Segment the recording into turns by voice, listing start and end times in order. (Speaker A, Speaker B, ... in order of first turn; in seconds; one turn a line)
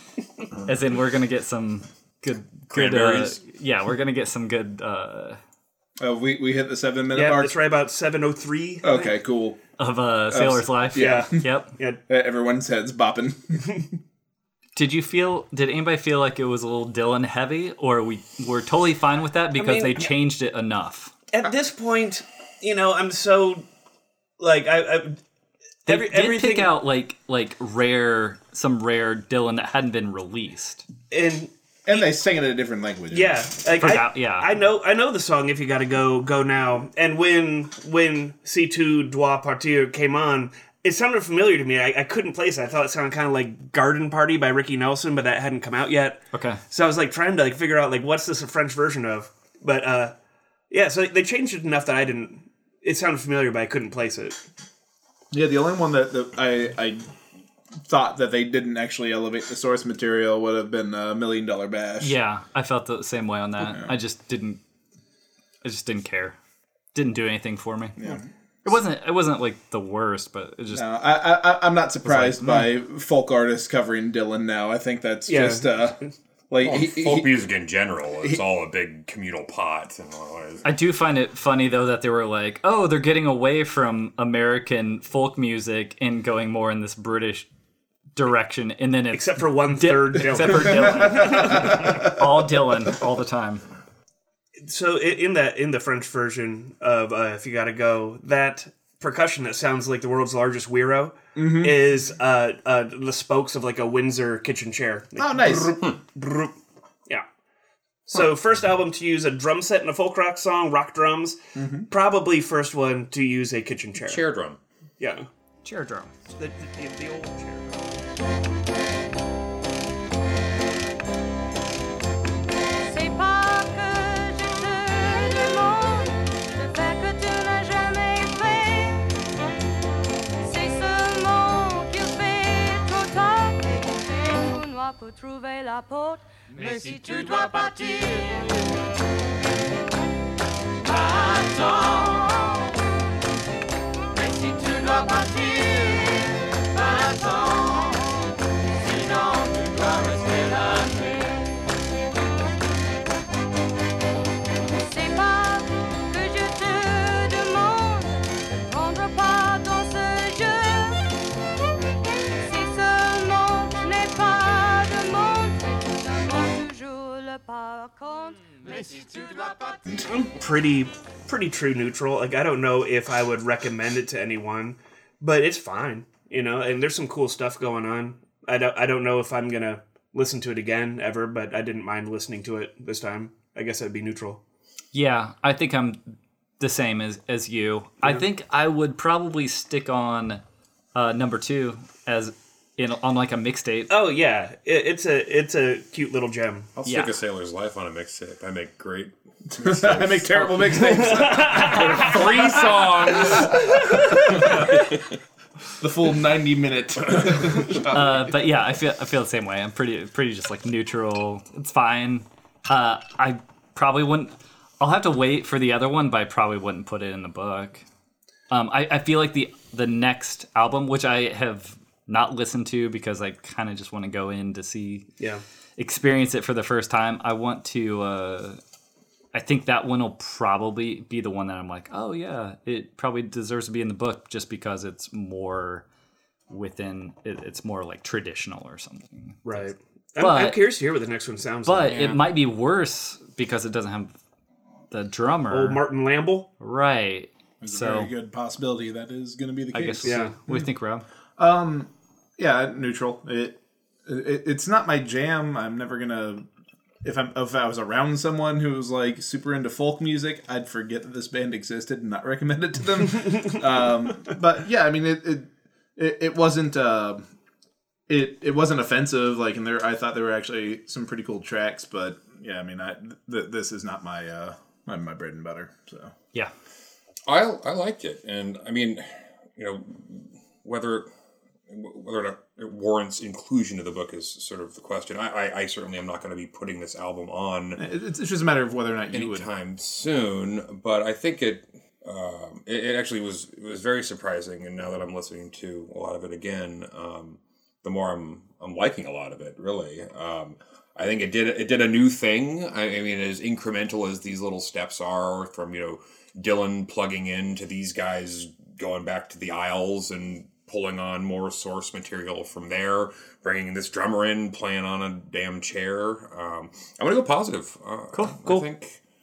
Speaker A: 0.6-5.4
Speaker B: 2.7-3.4
Speaker C: 6.0-7.5
Speaker D: 7.1-9.1
Speaker C: 8.8-9.6
Speaker A: 9.8-11.7
Speaker C: 10.3-11.4
Speaker D: 10.9-12.0
Speaker C: 12.1-13.8
Speaker A: 14.8-21.1
Speaker D: 19.6-20.1
Speaker D: 21.3-23.6
Speaker D: 24.4-25.2
Speaker D: 25.9-26.7
Speaker A: 25.9-30.9
Speaker D: 31.1-32.1
Speaker C: 31.9-33.4
Speaker D: 33.1-50.1
Speaker A: 33.8-34.5
Speaker A: 46.3-46.6
Speaker D: 50.7-54.4
Speaker C: 55.3-57.0
Speaker C: 57.9-62.1
Speaker A: 62.0-64.6
Speaker C: 63.6-63.9
Speaker A: 65.6-66.4
Speaker A: 66.9-68.0
Speaker C: 68.0-68.2
Speaker A: 68.6-70.9
Speaker C: 70.7-76.0
Speaker A: 72.0-72.8
Speaker D: 75.3-76.1
Speaker C: 76.5-77.4
Speaker B: 76.6-80.7
Speaker A: 80.6-87.5
Speaker A: 88.1-93.6
Speaker D: 89.1-91.9
Speaker D: 94.6-106.5
Speaker C: 101.3-101.8
Speaker C: 105.2-105.8
Speaker D: 108.1-111.4
Speaker C: 111.5-111.9
Speaker D: 111.9-114.2
Speaker B: 114.0-114.6
Speaker D: 115.0-115.3
Speaker A: 115.6-116.1
Speaker D: 116.4-117.7
Speaker E: 122.8-129.2
Speaker E: 130.4-138.7
Speaker E: 140.9-142.8
Speaker E: 144.2-148.2
Speaker E: 148.8-151.6
Speaker E: 154.7-161.2
Speaker E: 162.3-169.8
Speaker D: 170.1-184.4
Speaker A: 184.9-190.4
Speaker A: 190.9-193.9
Speaker D: 193.9-196.7
Speaker B: 196.8-200.5
Speaker A: 196.8-197.1
Speaker C: 199.5-204.7
Speaker D: 200.6-202.3
Speaker B: 201.7-205.0
Speaker D: 203.7-204.2
Speaker C: 205.8-208.2
Speaker A: 207.8-217.8
Speaker A: 218.5-225.1
Speaker A: 225.8-228.6
Speaker A: 229.3-235.8
Speaker A: 236.5-240.6
Speaker D: 239.4-242.2
Speaker A: 241.6-244.1
Speaker B: 241.9-242.2
Speaker A: 244.9-245.8
Speaker D: 245.5-246.5
Speaker A: 246.6-248.1
Speaker C: 247.6-250.7
Speaker A: 249.7-251.0
Speaker D: 250.0-250.3
Speaker C: 251.4-256.4
Speaker C: 257.0-267.2
Speaker C: 268.1-276.1
Speaker B: 277.2-281.1
Speaker B: 281.7-287.8
Speaker C: 287.8-289.5
Speaker B: 289.1-319.0
Speaker A: 318.1-318.4